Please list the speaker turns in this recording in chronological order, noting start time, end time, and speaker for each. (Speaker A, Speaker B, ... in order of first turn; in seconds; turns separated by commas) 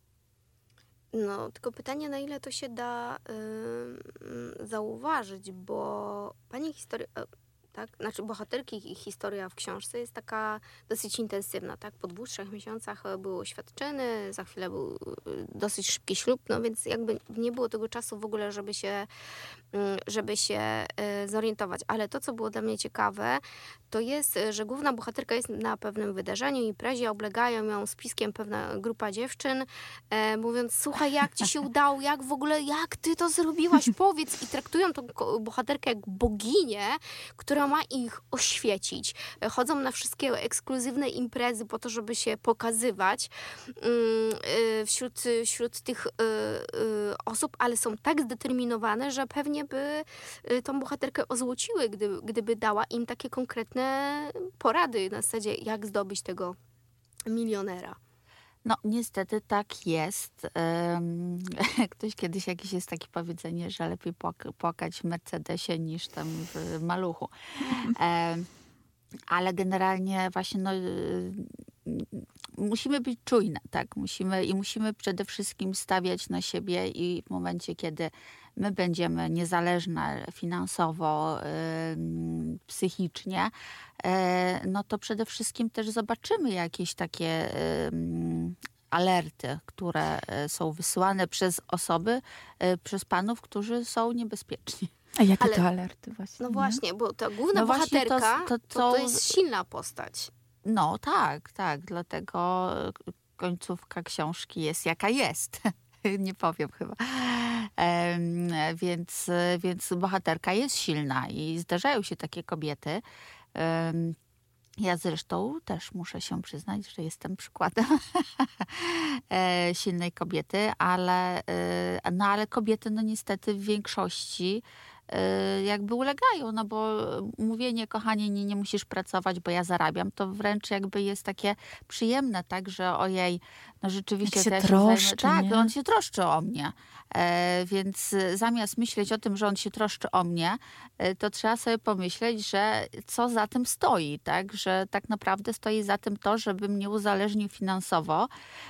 Speaker A: 1.1-19.1, Speaker A: 19.7-56.6, Speaker A: 57.3-58.0, Speaker B: 58.6-68.5, Speaker B: 69.3-94.9, Speaker C: 95.2-96.8, Speaker A: 96.4-100.3, Speaker B: 97.5-99.3, Speaker B: 100.7-113.0, Speaker B: 113.5-114.2, Speaker B: 114.8-148.3, Speaker C: 134.3-135.7